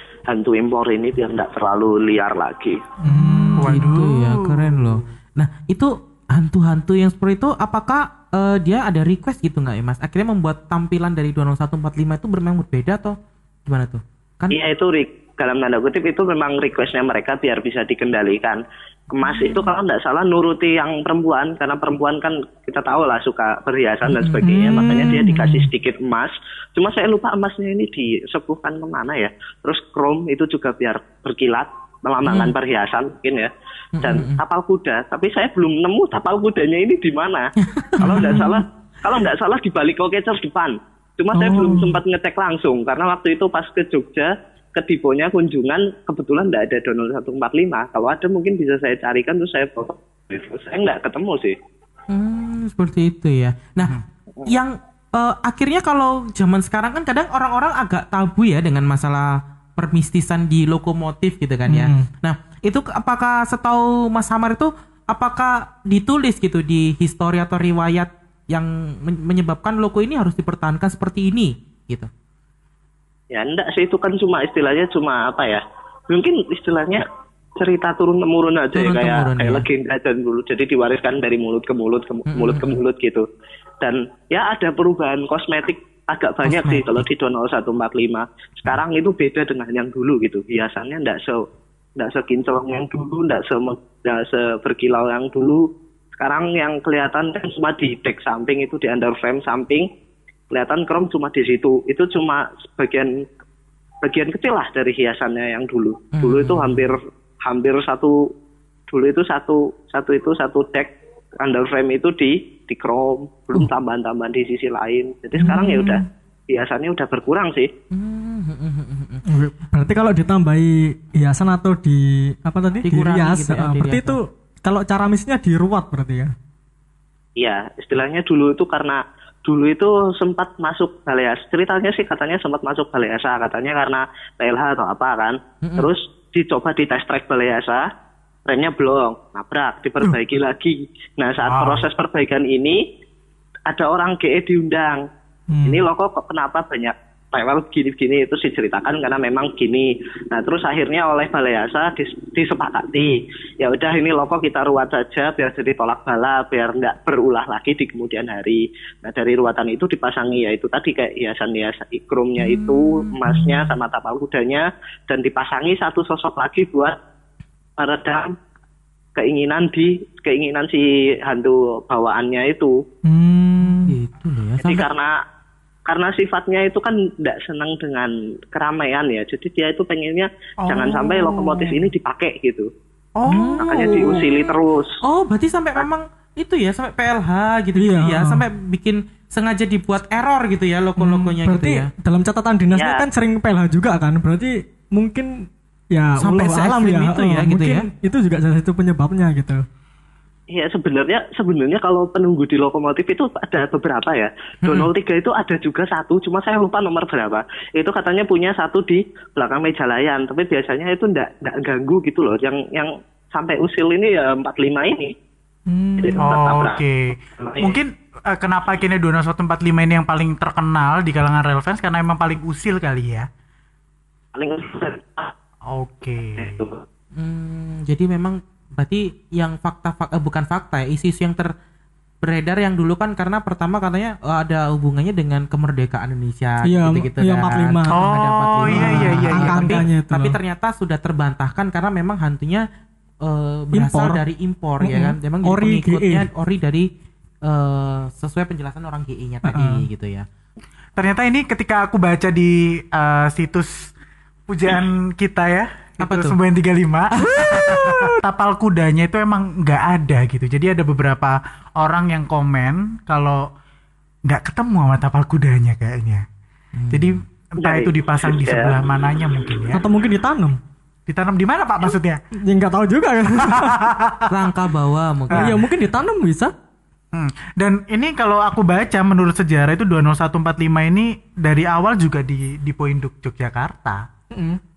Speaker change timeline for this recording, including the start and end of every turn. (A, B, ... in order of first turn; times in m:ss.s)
0:00.3-0:02.8 A
0:03.0-0:03.9 B
0:03.2-0:14.6 C
0:03.6-0:05.0 D
0:14.5-0:33.5 A
0:24.1-0:25.0 C
0:24.4-0:25.7 B
0:32.3-0:32.5 C
0:34.0-0:34.4 C
0:34.0-0:51.6 A
0:37.8-0:38.6 C
0:38.0-0:38.5 B
0:41.4-0:41.9 B
0:52.1-1:12.1 C
1:01.7-1:02.1 B
1:13.3-1:17.0 A
1:17.6-1:23.3 A
1:18.8-1:19.6 C
1:22.3-1:22.8 C
1:23.8-1:31.4 A
1:26.4-1:27.1 C
1:32.0-1:39.9 A
1:40.5-1:43.2 A
1:44.0-1:48.3 A
1:46.1-1:46.9 C
1:48.9-1:57.7 A
1:55.4-1:56.0 B
1:57.9-1:59.2 C
1:59.3-2:06.3 B
2:02.8-2:04.2 C
2:07.4-2:17.9 A
2:15.6-2:15.9 C
2:18.5-2:22.8 A
2:21.4-2:21.9 D
2:23.7-2:25.0 A
2:25.5-2:25.8 B
2:25.7-2:47.0 A
2:42.4-2:43.5 C
2:47.8-2:48.3 A
2:49.2-2:52.8 A
2:53.1-2:53.9 B
2:53.9-2:54.9 C
2:54.6-2:55.2 A
2:55.9-3:02.7 A
3:00.6-3:01.8 D
3:03.2-3:03.6 D
3:03.3-3:04.4 C
3:03.6-3:05.0 A
3:05.0-3:11.9 C
3:07.8-3:08.4 B
3:11.0-3:19.6 B
3:12.8-3:13.0 A
3:16.2-3:17.9 C
3:20.5-3:35.1 A
3:24.6-3:24.9 C
3:35.7-3:36.3 B
3:36.0-3:36.8 A
3:36.2-3:43.3 D
3:37.4-3:37.8 A
3:44.4-3:45.3 A
3:45.7-3:46.6 D
3:46.4-3:46.8 A
3:47.2-3:51.5 C
3:52.2-4:02.6 C
3:56.6-3:58.0 B
3:57.9-3:59.8 D
3:58.7-4:00.4 B
4:03.2-4:06.9 C
4:03.7-4:04.2 B
4:04.8-4:06.3 B
4:07.5-4:10.3 C
4:09.4-4:09.8 B
4:11.0-4:13.9 D
4:14.5-4:23.5 D
4:16.0-4:16.4 C
4:17.3-4:18.1 B
4:24.3-4:26.2 D
4:26.8-4:27.2 C
4:26.9-4:29.8 D
4:27.6-4:28.8 A
4:29.7-4:30.6 B
4:31.1-4:32.2 D
4:32.4-4:33.8 B
4:33.4-4:34.3 D
4:34.3-4:35.6 C
4:35.3-4:35.6 D
4:35.3-4:36.5 B
4:37.1-4:44.0 D
4:44.3-4:44.6 B